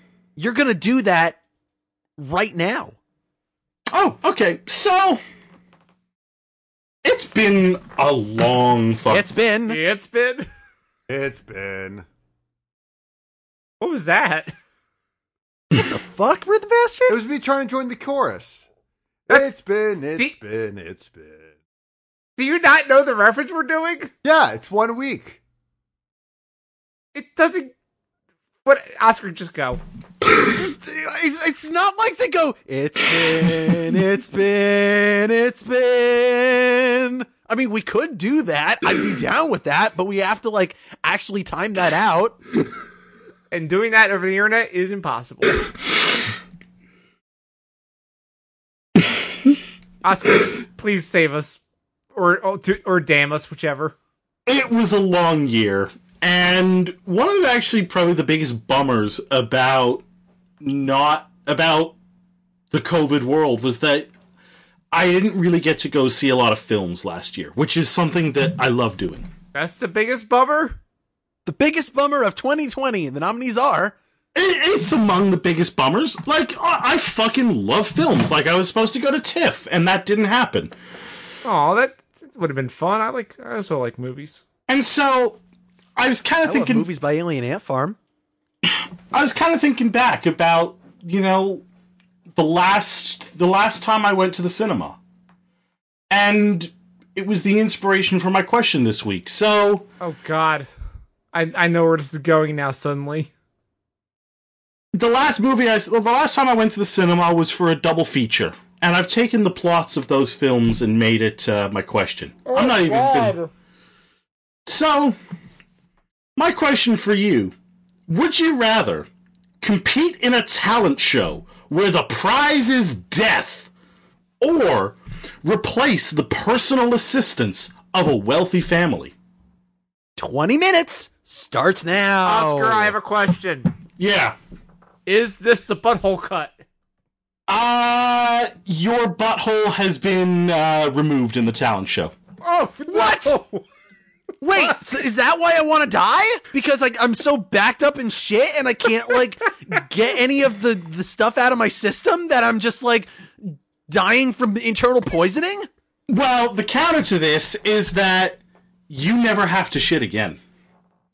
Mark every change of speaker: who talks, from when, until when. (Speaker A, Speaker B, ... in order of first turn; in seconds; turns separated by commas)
Speaker A: 0.4-1.4, Speaker A: 2.2-2.9, Speaker B: 3.9-5.2, Speaker B: 7.0-9.2, Speaker A: 9.1-9.8, Speaker C: 9.7-10.5, Speaker D: 11.1-12.0, Speaker C: 13.8-14.5, Speaker A: 15.7-17.2, Speaker D: 17.1-18.6, Speaker D: 19.3-21.5, Speaker C: 22.4-24.1, Speaker D: 24.2-25.4, Speaker C: 27.1-27.7, Speaker C: 28.6-29.8, Speaker A: 30.3-42.4, Speaker C: 43.5-45.6, Speaker C: 50.0-51.6, Speaker C: 52.1-53.9, Speaker B: 54.5-60.0, Speaker B: 60.6-61.9, Speaker B: 62.7-64.1, Speaker B: 64.9-69.3, Speaker C: 69.5-70.8, Speaker A: 71.4-73.9, Speaker B: 74.3-80.7, Speaker C: 81.4-84.4, Speaker B: 84.7-85.4, Speaker B: 86.0-86.9, Speaker A: 86.4-88.0, Speaker B: 88.7-91.6, Speaker B: 92.3-95.0, Speaker B: 96.1-99.8, Speaker C: 100.0-100.7, Speaker C: 101.3-103.3, Speaker B: 104.9-113.3, Speaker C: 112.5-113.5, Speaker B: 114.7-115.2, Speaker B: 116.4-117.5, Speaker B: 118.1-119.1, Speaker B: 119.6-123.7, Speaker B: 124.4-129.1, Speaker A: 130.2-132.9, Speaker C: 132.2-133.7, Speaker B: 134.0-134.3, Speaker C: 135.1-136.5, Speaker B: 137.5-142.1, Speaker C: 142.4-143.6, Speaker A: 142.9-143.4, Speaker A: 144.4-155.7, Speaker B: 156.1-160.4